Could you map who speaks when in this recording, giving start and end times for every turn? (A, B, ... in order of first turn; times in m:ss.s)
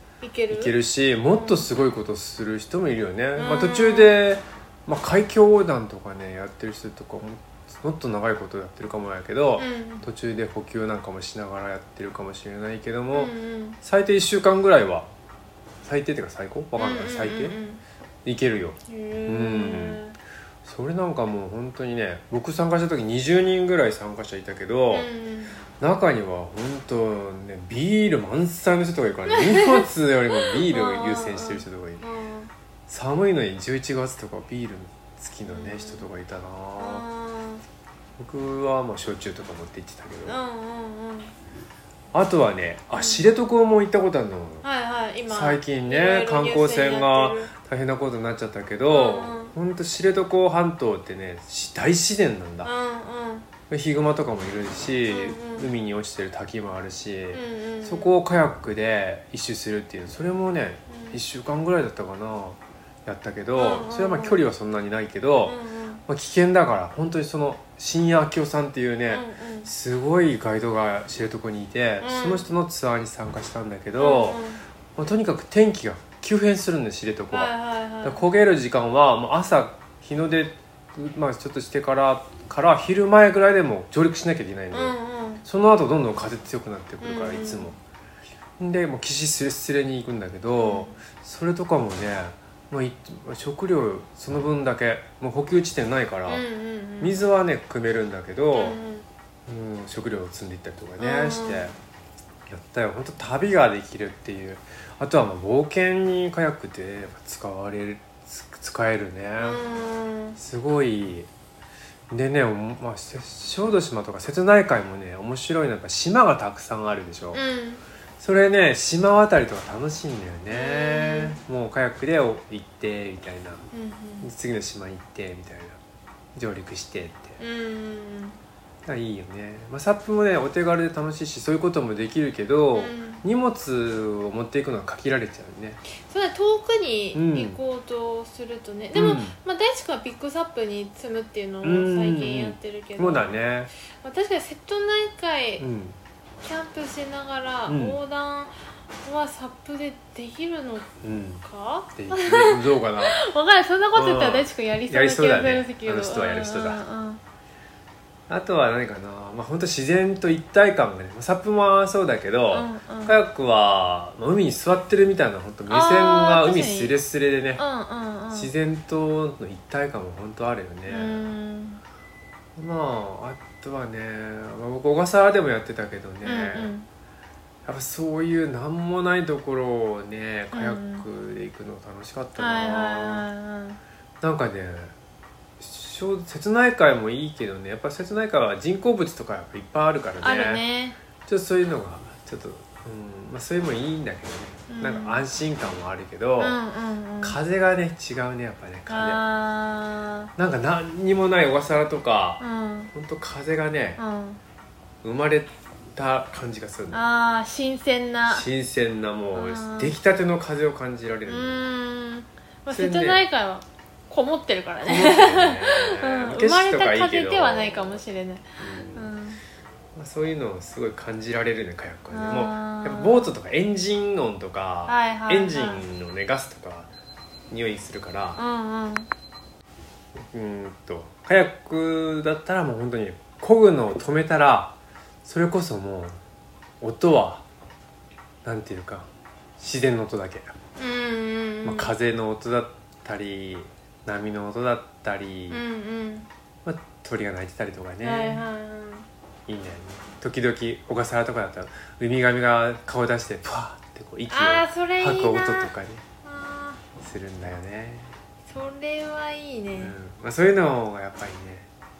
0:00.2-0:00.7 A
0:00.5-0:15.1 B
0:01.3-0:01.7 A
0:03.4-0:04.2 A
0:09.6-0:10.0 A
0:13.1-0:13.8 A
0:15.8-0:17.6 B
0:16.8-0:17.8 A
0:18.2-0:20.0 B
0:18.9-0:20.2 A
0:20.6-0:25.1 B
0:24.9-0:25.6 A
0:25.8-0:32.0 B
0:29.3-0:29.8 A
0:30.4-0:32.5 A
0:32.9-0:37.0 B
0:35.4-0:36.1 A
0:36.8-0:37.6 A
0:38.2-0:40.4 B
0:40.2-0:41.3 A
0:42.1-0:44.6 B
0:42.9-0:43.2 A
0:44.6-0:47.5 A
0:45.3-0:52.7 B
0:48.9-0:49.5 A
0:52.6-0:53.5 A
0:53.7-1:14.4 B
0:55.0-0:55.7 A
0:57.3-0:58.1 A
1:00.9-1:01.2 A
1:03.5-1:04.4 A
1:05.4-1:06.0 A
1:09.1-1:09.7 A
1:12.0-1:12.5 A
1:14.0-1:14.6 A
1:15.0-1:17.5 B
1:17.3-1:18.3 A
1:18.0-1:27.8 B
1:24.7-1:25.4 A
1:27.0-1:27.7 A
1:28.6-1:36.4 B
1:30.6-1:30.9 A
1:36.3-1:37.2 A
1:37.0-1:38.8 B
1:38.5-1:39.0 A
1:39.5-1:41.7 B
1:41.0-1:41.7 A
1:42.5-1:49.6 B
1:49.4-1:50.4 A
1:50.4-1:51.3 B
1:52.1-1:57.4 B
1:57.3-1:57.8 A
1:58.2-2:03.6 B
2:00.5-2:01.4 A
2:03.7-2:04.3 A
2:04.2-2:05.8 B
2:06.3-2:07.4 B
2:07.4-2:08.4 A
2:08.8-2:15.8 B
2:12.7-2:13.2 A
2:16.0-2:23.4 A
2:17.1-2:17.6 B
2:18.9-2:19.3 B
2:21.6-2:23.7 B
2:24.0-2:25.6 A
2:25.6-2:26.0 B
2:26.4-2:30.9 A
2:27.7-2:28.0 B
2:31.0-2:33.2 B
2:31.4-2:37.2 A
2:33.9-2:36.8 B
2:38.3-2:47.6 B
2:42.5-2:43.2 A
2:45.7-2:47.0 A
2:47.6-2:48.5 A
2:48.3-2:51.3 B
2:50.9-2:51.8 A
2:52.6-2:56.7 B
2:56.2-2:56.9 A
2:57.6-3:03.2 B
3:00.5-3:01.0 A
3:02.4-3:03.8 A
3:04.2-3:04.9 B
3:05.6-3:10.6 B
3:10.2-3:11.0 A
3:11.2-3:16.6 B
3:14.7-3:15.2 A
3:16.4-3:17.4 A
3:17.2-3:19.2 B
3:18.9-3:20.3 A
3:20.4-3:22.4 B
3:22.4-3:22.9 A
3:22.9-3:24.0 B
3:24.0-3:24.4 A
3:25.0-3:27.0 B
3:26.9-3:28.4 A
3:28.3-3:31.7 B
3:29.3-3:29.9 A
3:31.3-3:39.4 A
3:32.7-3:33.3 B
3:34.8-3:38.0 B
3:38.6-3:39.1 B
3:39.9-3:46.9 B
3:42.1-3:43.3 A
3:44.8-3:45.8 A
3:47.5-3:48.4 B
3:48.4-3:49.1 A
3:50.2-3:56.2 B
3:56.8-3:57.4 B
3:58.4-3:59.1 B
3:59.6-4:00.5 B
4:00.8-4:01.9 A
4:01.6-4:05.6 B
4:05.5-4:06.3 A
4:06.6-4:08.4 B
4:08.0-4:09.0 A
4:09.5-4:16.0 B
4:14.3-4:15.7 A
4:16.2-4:16.8 A
4:17.0-4:18.1 B
4:18.5-4:19.9 A
4:19.8-4:21.7 B